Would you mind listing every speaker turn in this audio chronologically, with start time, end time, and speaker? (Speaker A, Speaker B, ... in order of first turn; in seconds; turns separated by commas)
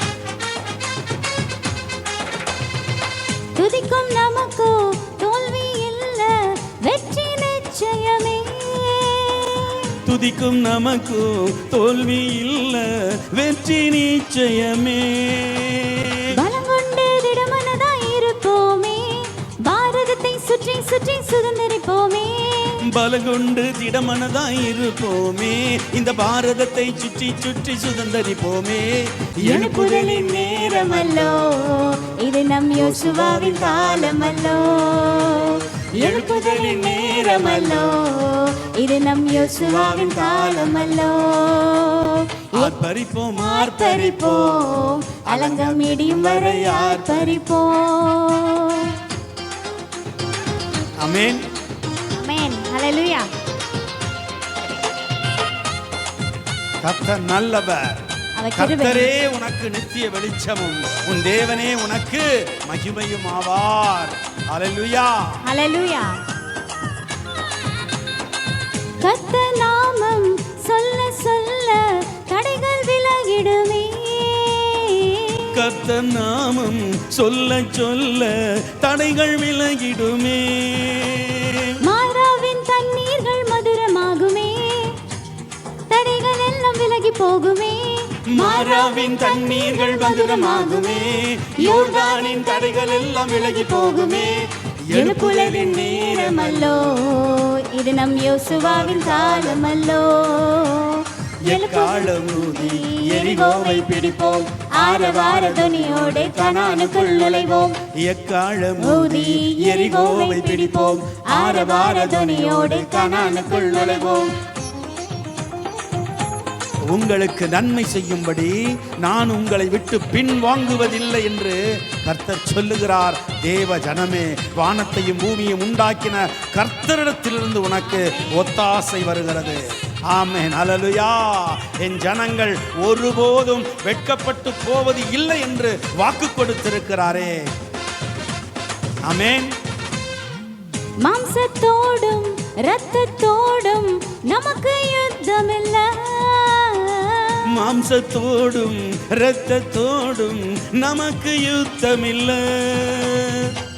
Speaker A: 3.6-10.0, Speaker B: 10.1-16.2, Speaker A: 16.3-22.8, Speaker B: 22.8-30.4, Speaker A: 29.4-42.8, Speaker B: 32.8-35.0, Speaker B: 35.9-37.7, Speaker B: 39.4-40.1, Speaker B: 42.5-47.4, Speaker A: 43.3-49.0, Speaker B: 51.0-51.4, Speaker A: 52.1-53.3, Speaker B: 56.8-58.0, Speaker A: 58.4-59.1, Speaker B: 58.6-65.2, Speaker A: 65.4-66.2, Speaker A: 69.0-75.6, Speaker B: 75.5-81.7, Speaker A: 81.8-85.0, Speaker A: 85.9-107.9, Speaker B: 88.3-94.3, Speaker B: 94.9-96.8, Speaker B: 98.5-99.8, Speaker B: 101.5-104.1, Speaker B: 104.6-106.7, Speaker B: 108.0-113.1, Speaker A: 108.8-114.3, Speaker B: 116.9-137.4, Speaker A: 127.8-128.7, Speaker A: 129.4-129.7, Speaker B: 139.1-139.5, Speaker A: 141.0-147.6, Speaker B: 147.5-153.5